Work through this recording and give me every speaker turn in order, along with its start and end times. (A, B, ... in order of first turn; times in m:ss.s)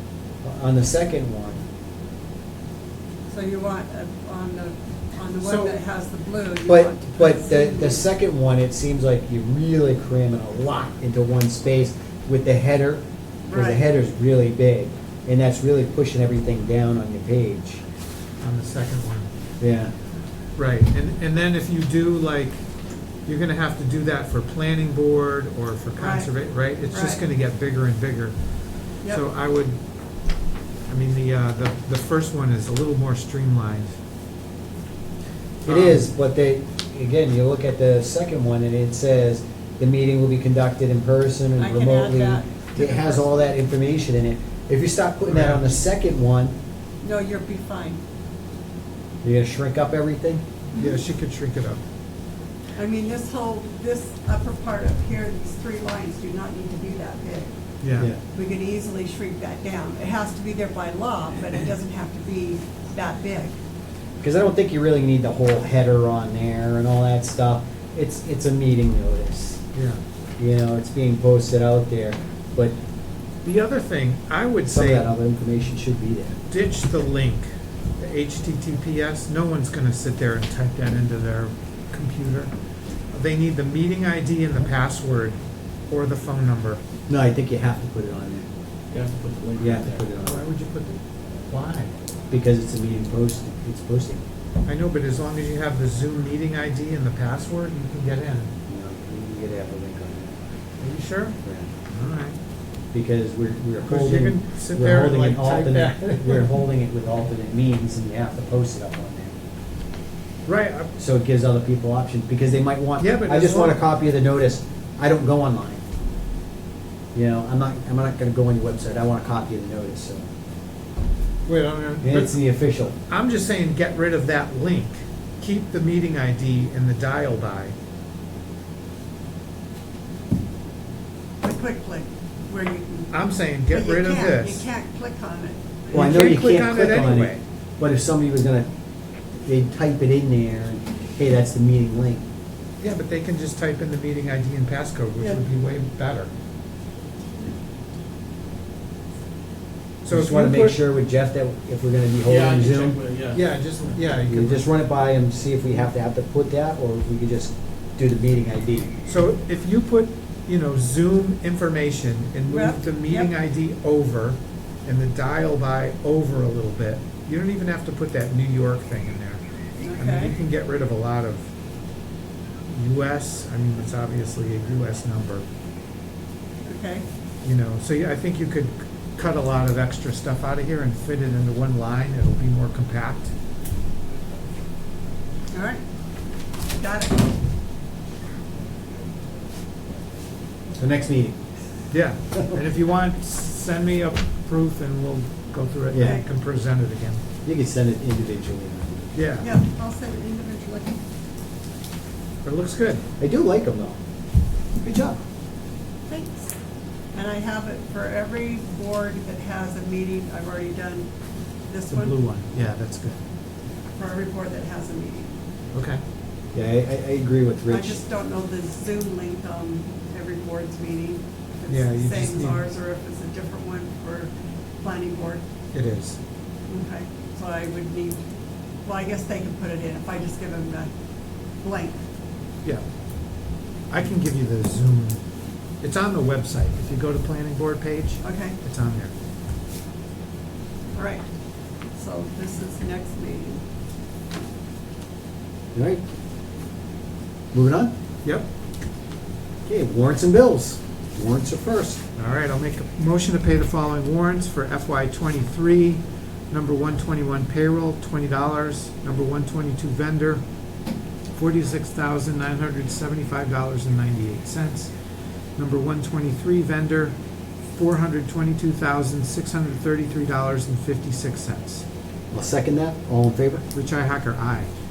0:00.4-0:01.6 A
0:03.3-0:08.0 B
0:05.4-0:05.8 C
0:06.6-0:17.8 A
0:13.5-0:13.9 B
0:18.4-0:19.3 C
0:19.6-0:19.9 A
0:20.6-0:22.6 C
0:23.2-0:28.3 C
0:26.0-0:26.3 B
0:26.9-0:27.2 B
0:29.1-0:29.8 C
0:30.9-0:33.9 C
0:35.6-0:46.6 A
0:35.6-0:36.1 C
0:41.6-0:43.6 B
0:45.3-0:45.8 C
0:47.0-0:48.0 B
0:49.2-0:50.4 A
0:50.7-0:51.8 C
0:52.8-0:57.5 B
0:57.8-0:58.1 C
0:58.0-0:58.2 A
0:58.3-1:03.5 B
1:04.2-1:09.6 A
1:09.7-1:10.0 C
1:10.4-1:12.8 A
1:13.4-1:15.1 C
1:14.7-1:16.4 A
1:16.5-1:22.5 C
1:23.1-1:26.8 C
1:27.1-1:28.5 A
1:28.9-1:30.1 D
1:29.6-1:30.4 A
1:30.2-1:31.9 C
1:32.3-1:34.2 A
1:34.6-1:38.5 C
1:38.7-1:40.4 A
1:40.8-1:41.4 C
1:41.4-1:41.7 A
1:41.9-1:42.4 C
1:42.9-1:49.4 A
1:43.8-1:46.6 C
1:50.4-1:50.9 C
1:51.0-1:55.8 A
1:53.0-1:53.8 C
1:57.1-2:00.3 A
2:01.4-2:02.4 C
2:02.0-2:03.0 A
2:03.1-2:07.7 C
2:11.4-2:13.1 B
2:13.1-2:14.6 C
2:13.7-2:16.1 B
2:15.9-2:17.4 C
2:15.9-2:18.7 A
2:19.4-2:22.2 A
2:22.8-2:26.3 C
2:30.0-2:30.8 C
2:30.1-2:33.0 A
2:32.2-2:33.5 D
2:33.3-2:34.7 C
2:34.2-2:38.9 A
2:39.0-2:49.4 C
2:42.5-2:43.3 B
2:49.8-2:50.3 B
2:49.9-2:51.5 C
2:52.7-2:55.4 C
2:56.6-2:57.0 B
2:57.4-3:03.3 C
3:05.5-3:05.8 B
3:06.7-3:07.2 B
3:10.8-3:11.4 A
3:11.9-3:17.2 C
3:15.9-3:16.2 A
3:17.4-3:19.1 A
3:19.1-3:19.5 C
3:19.4-3:21.0 B
3:22.4-3:23.0 C
3:23.2-3:24.0 A
3:24.8-3:25.2 A
3:26.1-3:26.5 B
3:27.1-3:31.1 B
3:31.7-3:32.2 B
3:31.9-3:33.2 C
3:34.0-3:35.3 B
3:35.7-3:36.0 C
3:36.5-3:38.0 A
3:37.7-3:44.3 B
3:41.7-3:42.6 C
3:44.8-3:45.4 B
3:45.7-3:46.2 C
3:46.7-3:48.2 B
3:48.8-3:50.9 B
3:51.6-3:52.0 B
3:53.9-3:55.2 C
3:55.8-3:59.1 C
3:58.2-3:58.6 B
4:00.9-4:01.2 B
4:01.9-4:03.6 B
4:05.7-4:06.0 A
4:07.5-4:07.9 A
4:09.6-4:12.0 A
4:12.2-4:20.4 C
4:21.3-4:24.9 C
4:25.6-4:27.2 C
4:27.7-4:31.8 C
4:32.3-4:33.6 A
4:33.7-4:34.7 C